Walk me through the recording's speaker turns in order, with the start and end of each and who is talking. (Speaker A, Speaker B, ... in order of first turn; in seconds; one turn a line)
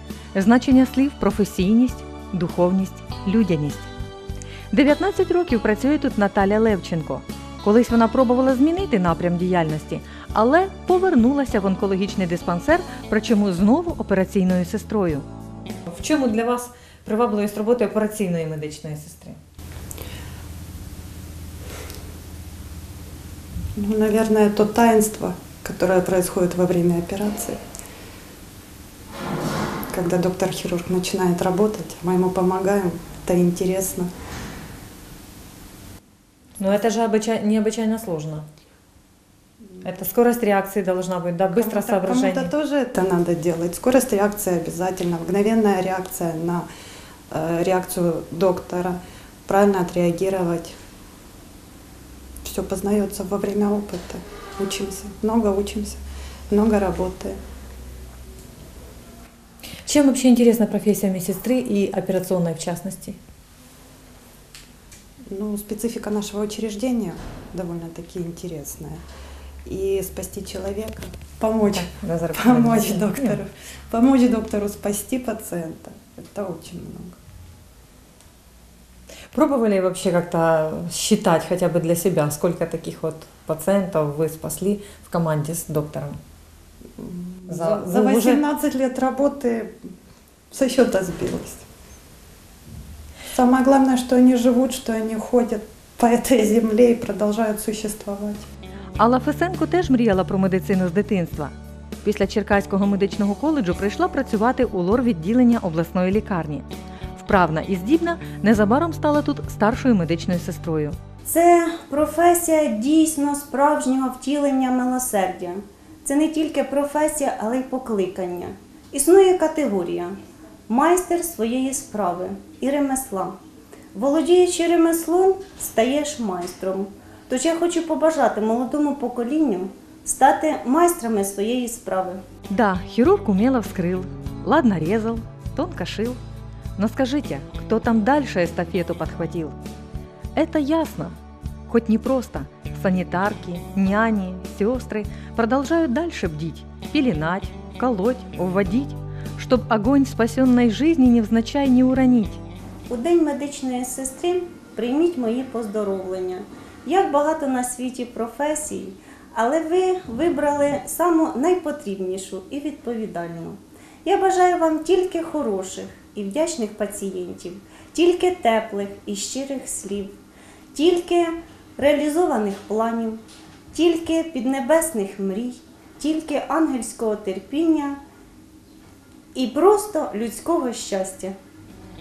Speaker A: 0.3-3.9
Speaker A: 4.7-15.3
Speaker A: 15.9-19.4
Speaker B: 23.8-27.6
Speaker B: 29.9-34.1
Speaker A: 36.6-38.5
Speaker A: 39.8-42.5
Speaker B: 41.5-46.7
Speaker B: 47.3-50.8
Speaker B: 52.4-57.4
Speaker A: 59.9-63.2
Speaker B: 65.3-69.0
Speaker B: 69.7-77.2
Speaker A: 71.7-73.4
Speaker A: 79.3-86.2
Speaker B: 87.0-89.8
Speaker A: 87.5-88.4
Speaker B: 90.5-91.7
Speaker B: 93.3-98.5
Speaker A: 99.0-106.7
Speaker A: 107.2-111.0
Speaker C: 111.3-120.2
Speaker C: 120.7-123.4
Speaker C: 123.9-132.2
Speaker A: 132.5-136.2
Speaker A: 136.8-139.6
Speaker A: 140.3-141.2
Speaker A: 141.7-152.4
Speaker C: 152.9-170.2
Speaker C: 170.7-173.2
Speaker C: 173.7-178.0
Speaker C: 179.3-181.4